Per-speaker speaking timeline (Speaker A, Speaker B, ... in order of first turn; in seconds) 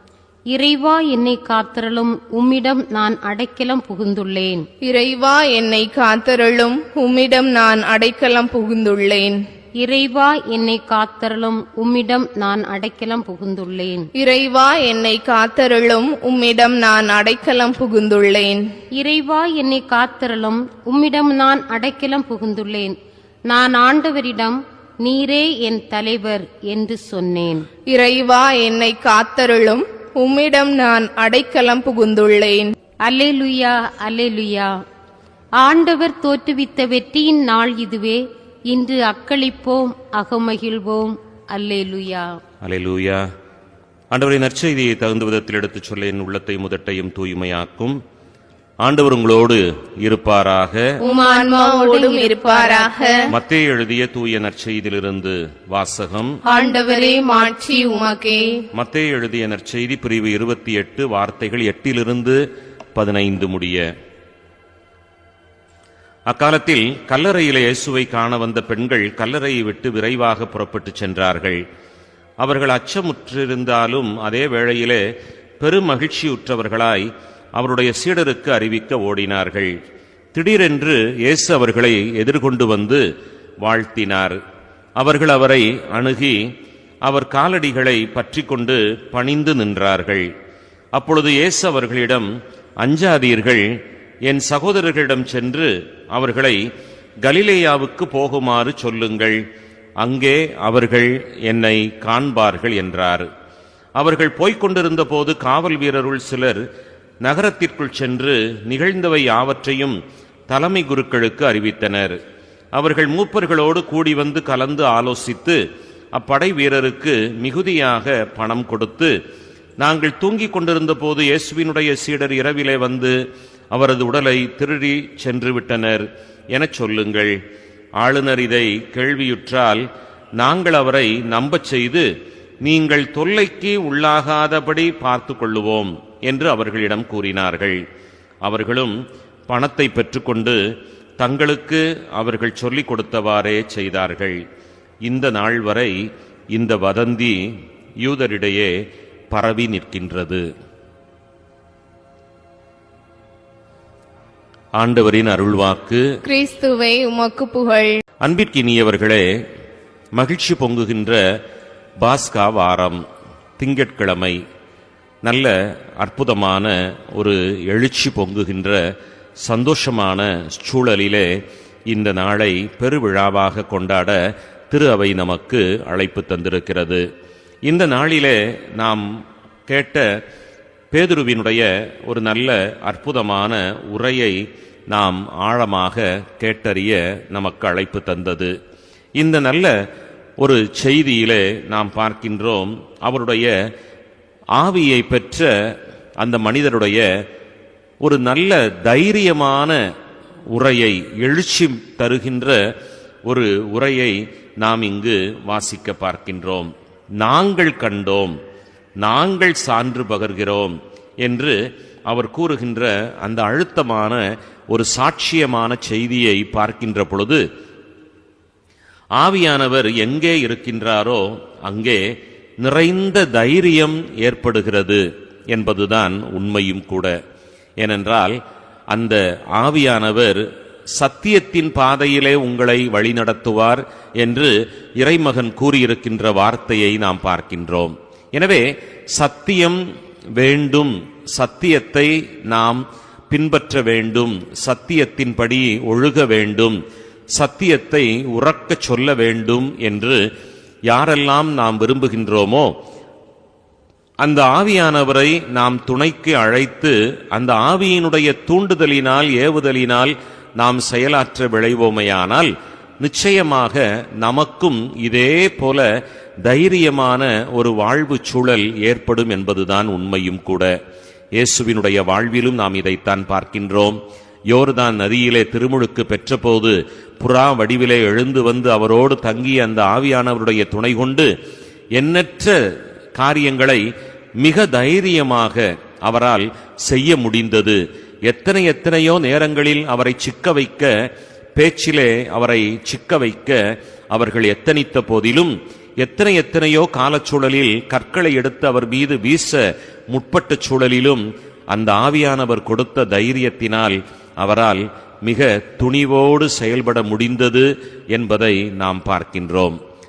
Speaker A: 0.5-4.7, 9.8-14.1, 19.0-22.9, 23.5-27.7, 33.0-34.7, 35.6-42.3, 51.0-53.2, 56.5-58.2
Speaker B: 4.8-9.4, 14.2-18.7, 27.9-32.7, 51.0-53.2, 56.5-58.5, 156.2-158.0
Speaker C: 42.6-43.2, 44.1-48.0, 48.8-50.9, 53.3-56.4, 58.7-62.4, 63.0-63.9, 66.3-71.6, 72.4-75.0, 75.6-79.8, 80.3-83.0, 83.6-84.4, 85.0-86.4, 87.0-90.3, 91.0-92.3, 92.8-93.7, 94.2-96.6, 97.2-99.4, 100.0-103.3, 104.0-106.6, 107.2-110.0, 110.5-112.2, 112.7-115.6, 116.1-119.1, 119.8-123.2, 123.7-127.4, 128.0-129.8, 130.4-132.1, 132.6-137.8, 138.4-139.0, 139.5-140.6, 141.2-144.4, 145.1-146.0, 146.5-147.4, 148.0-148.7, 149.3-150.4, 154.8-156.1, 158.2-159.3, 160.2-161.2, 162.0-163.0, 163.6-164.4, 165.2-168.8, 169.4-171.3, 171.9-174.2, 174.7-177.0, 177.7-179.1, 179.7-180.1, 180.9-184.4, 184.9-188.5, 189.2-189.7, 190.4-193.5, 194.6-195.5, 196.2-197.1, 198.0-199.8, 200.5-202.6, 203.3-208.3, 209.0-211.6, 212.1-214.2, 214.7-217.4, 219.2-222.0, 222.6-227.2, 227.8-228.4, 228.9-230.4, 230.9-239.8, 240.4-246.8, 247.3-250.2, 250.9-252.7, 254.2-262.5, 263.0-265.9, 266.4-270.7, 271.4-274.0, 274.5-281.3, 281.9-282.6, 283.1-283.9, 284.4-290.9, 291.6-293.6, 294.1-309.8